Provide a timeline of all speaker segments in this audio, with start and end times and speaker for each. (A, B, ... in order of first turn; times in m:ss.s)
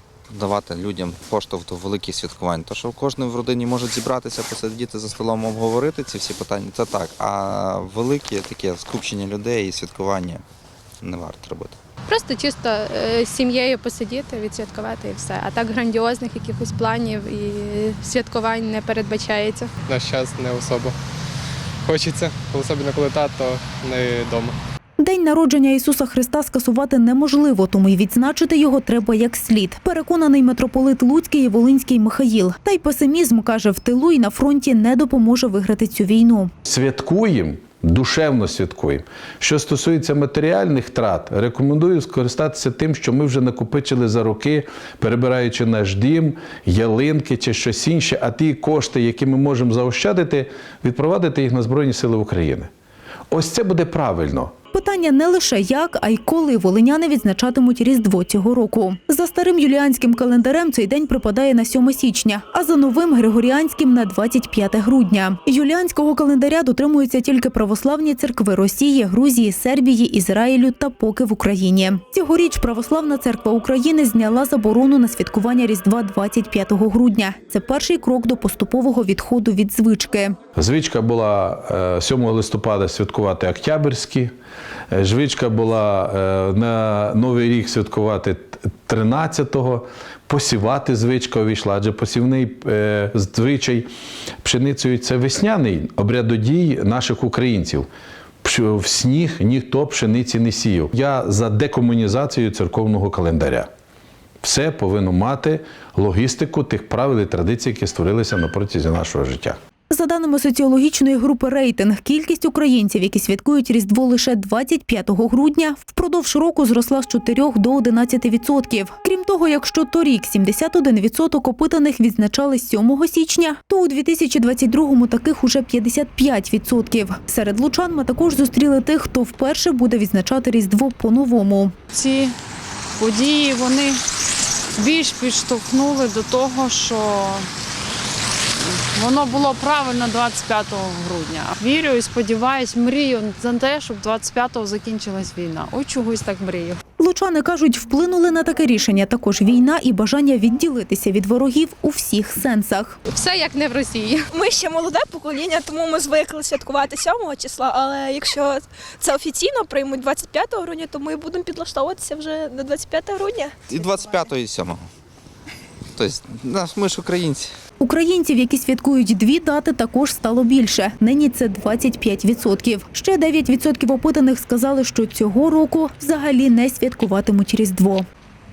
0:00.3-0:10.4 A
0:11.0-0:11.8 A
0:12.1-0:19.7 B
0:19.9-0:20.9 C
0:21.8-0:24.5 C
0:25.0-0:36.5 D
0:36.6-0:52.7 E
0:53.3-0:54.5 E
0:54.7-1:20.4 D
1:20.5-1:24.3 E
1:24.9-1:33.9 E
1:34.4-1:37.9 E
1:38.4-1:43.7 E
1:44.4-1:49.6 E
1:49.9-2:11.7 D
2:11.9-2:12.4 F
2:13.0-2:14.0 F
2:14.8-2:17.5 F
2:18.6-2:26.8 F
2:27.0-2:33.0 D
2:33.1-2:34.2 B
2:34.3-2:44.2 G
2:43.7-2:44.9 A
2:45.9-2:47.5 A
2:47.8-2:58.0 D